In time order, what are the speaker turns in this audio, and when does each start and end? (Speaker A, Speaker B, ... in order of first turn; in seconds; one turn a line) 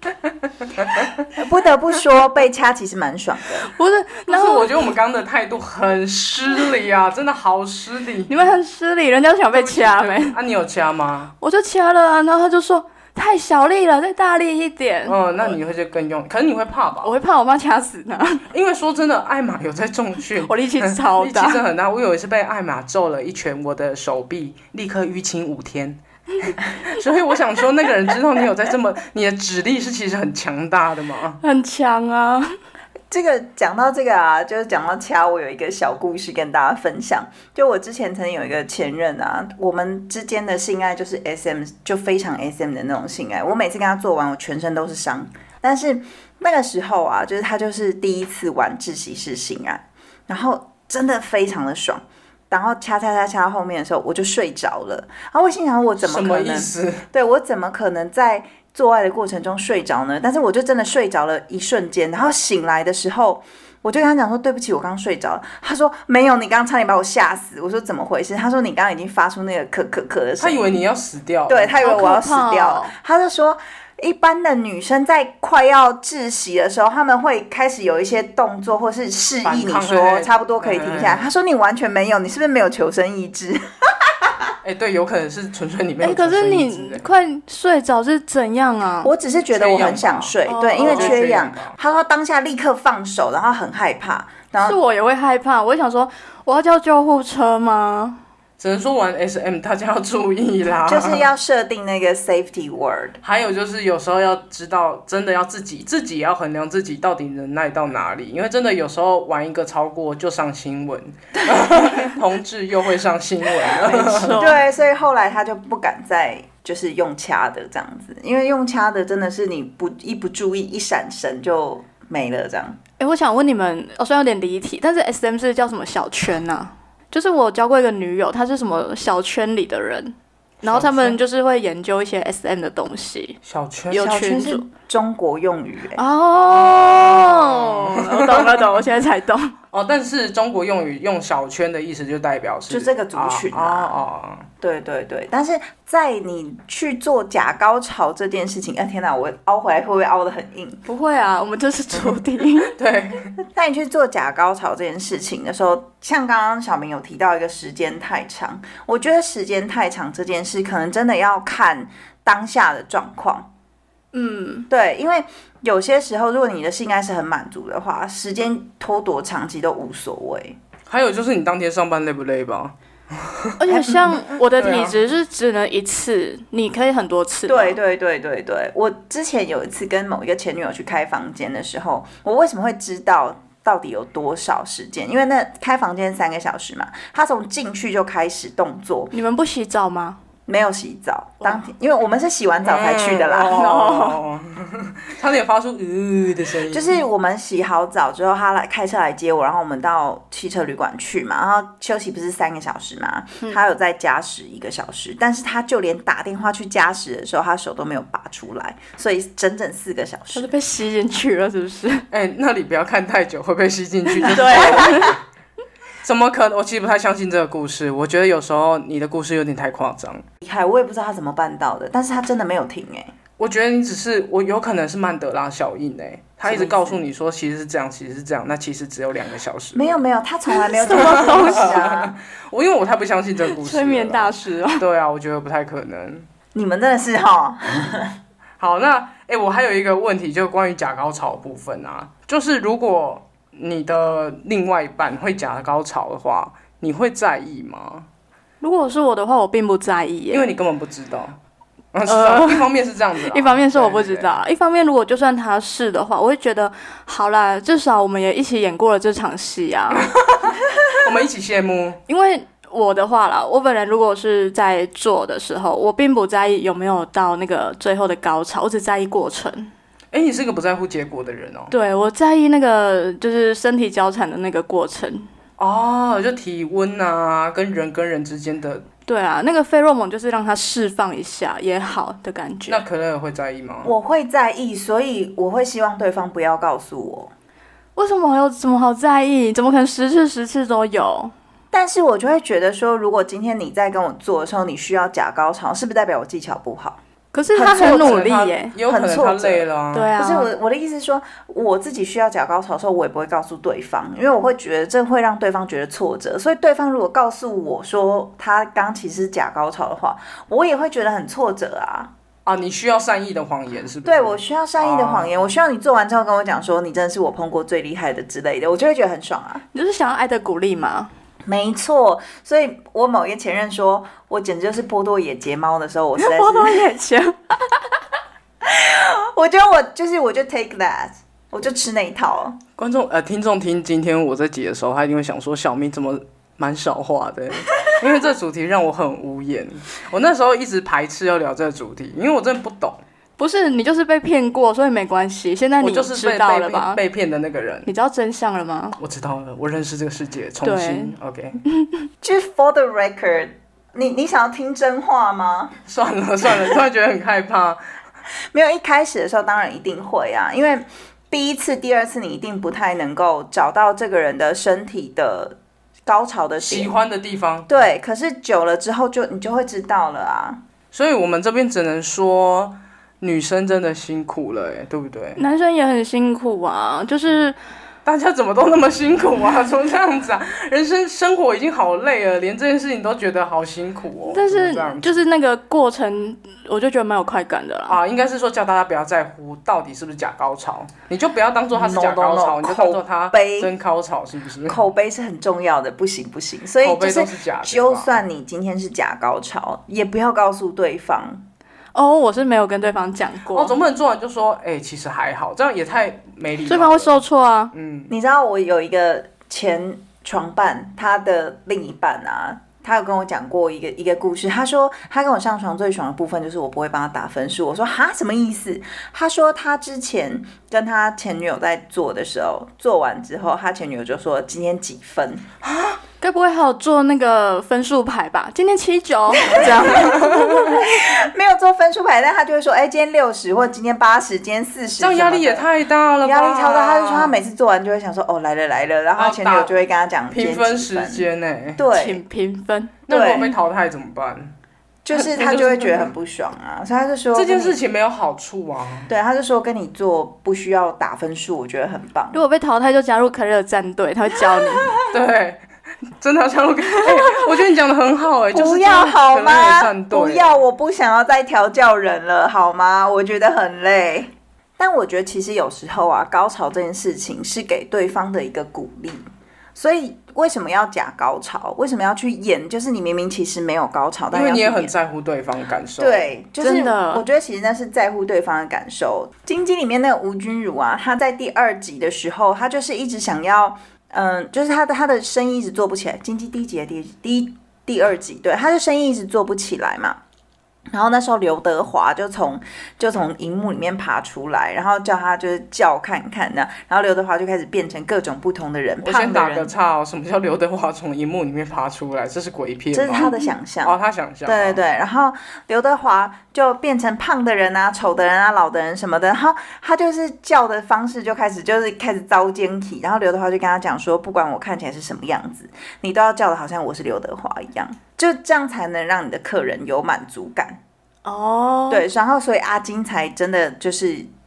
Speaker A: 1.4-3.7
Speaker B: 3.6-4.9
Speaker C: 4.3-8.3
Speaker B: 8.3-10.4
Speaker C: 9.5-11.3
Speaker B: 11.4-15.5
Speaker C: 15.1-17.1
Speaker B: 17.0-18.4
Speaker C: 18.5-31.4
Speaker B: 20.4-21.6
Speaker B: 31.4-32.5
Speaker A: 33.1-70.8
Speaker C: 56.0-57.0
Speaker C: 70.4-71.8
Speaker A: 71.5-84.5
Speaker B: 71.8-72.9
Speaker C: 79.4-81.3
Speaker C: 84.6-87.1
Speaker B: 86.0-89.1
Speaker A: 89.0-94.8
Speaker C: 89.5-91.8
Speaker B: 90.5-91.2
Speaker B: 94.6-98.2
Speaker C: 98.6-101.3
Speaker A: 100.8-103.2
Speaker C: 103.2-114.5
Speaker B: 113.8-114.6
Speaker A: 114.3-122.8
Speaker B: 123.0-133.4
Speaker C: 130.7-131.1
Speaker C: 133.4-134.1
Speaker B: 133.9-134.7
Speaker A: 133.9-136.0
Speaker B: 136.0-139.5
Speaker C: 136.6-138.7
Speaker C: 139.7-144.5
Speaker A: 142.7-144.0
Speaker A: 144.6-150.8
Speaker B: 150.9-152.7
Speaker C: 152.7-153.3
Speaker A: 153.5-163.5
Speaker B: 164.1-164.7
Speaker A: 164.7-170.6
Speaker C: 170.9-173.6
Speaker B: 173.6-177.8
Speaker A: 173.7-174.2
Speaker C: 174.6-175.0
Speaker A: 177.5-189.1
Speaker B: 189.1-190.2
Speaker A: 190.5-193.7
Speaker B: 191.4-191.7
Speaker C: 192.6-197.0
Speaker B: 193.5-194.2
Speaker A: 196.7-210.5
Speaker B: 210.3-212.1
Speaker C: 212.1-215.2
Speaker B: 214.2-215.2
Speaker C: 216.0-220.2
Speaker A: 220.4-223.1
Speaker C: 223.4-230.0
Speaker A: 226.4-227.0
Speaker A: 229.8-232.2
Speaker B: 230.5-231.9
Speaker C: 230.9-236.3
Speaker B: 233.6-234.8
Speaker A: 236.6-238.2
Speaker C: 238.6-248.1
Speaker B: 248.6-250.5
Speaker C: 250.3-251.4
Speaker C: 251.9-254.3
Speaker B: 252.1-252.7
Speaker B: 253.3-260.1
Speaker C: 260.0-262.0
Speaker B: 262.1-269.7
Speaker C: 270.1-271.7
Speaker B: 271.7-275.3
Speaker C: 275.6-278.9
Speaker B: 279.1-282.8
Speaker C: 282.7-283.9
Speaker A: 283.8-287.3
Speaker B: 288.0-291.3
Speaker A: 291.7-297.0
Speaker B: 297.3-298.8
Speaker A: 297.5-312.1
Speaker C: 297.8-300.1
Speaker B: 299.9-300.5
Speaker C: 312.5-315.4
Speaker A: 314.0-319.6
Speaker B: 319.7-321.1
Speaker A: 321.5-326.8
Speaker B: 326.2-327.9
Speaker A: 328.6-332.6
Speaker C: 332.8-343.0
Speaker B: 343.4-347.0
Speaker C: 345.8-347.9
Speaker B: 347.9-349.0
Speaker C: 349.0-351.6
Speaker B: 350.6-351.1
Speaker B: 351.7-352.1
Speaker A: 352.2-355.8
Speaker C: 355.9-357.8
Speaker A: 358.5-366.9
Speaker C: 366.6-367.7
Speaker A: 367.7-370.6
Speaker C: 370.9-375.4
Speaker B: 375.4-377.6
Speaker C: 378.1-385.2
Speaker B: 384.3-388.0
Speaker C: 387.9-394.8
Speaker A: 391.7-393.7
Speaker A: 394.7-401.4
Speaker C: 396.8-398.2
Speaker B: 401.9-403.8
Speaker C: 403.5-407.2
Speaker B: 406.7-407.7
Speaker C: 407.7-408.1
Speaker A: 408.1-425.5
Speaker C: 425.6-426.0
Speaker B: 426.2-430.8
Speaker A: 429.4-435.7
Speaker C: 435.0-437.4
Speaker A: 436.2-442.2
Speaker C: 439.2-439.8
Speaker C: 440.3-441.8
Speaker B: 441.9-442.9
Speaker C: 443.1-444.5
Speaker A: 443.1-443.6
Speaker A: 445.1-447.8
Speaker C: 445.1-446.1
Speaker C: 447.3-449.1
Speaker A: 449.1-452.4
Speaker B: 452.3-455.0
Speaker C: 455.1-455.6
Speaker C: 456.2-460.6
Speaker A: 458.5-474.9
Speaker C: 474.3-476.3
Speaker A: 476.0-490.2
Speaker B: 476.6-477.2
Speaker A: 490.9-499.7
Speaker C: 499.0-503.3
Speaker A: 502.9-520.8
Speaker B: 503.2-503.5
Speaker C: 503.8-504.8
Speaker B: 521.2-522.1
Speaker A: 521.9-524.3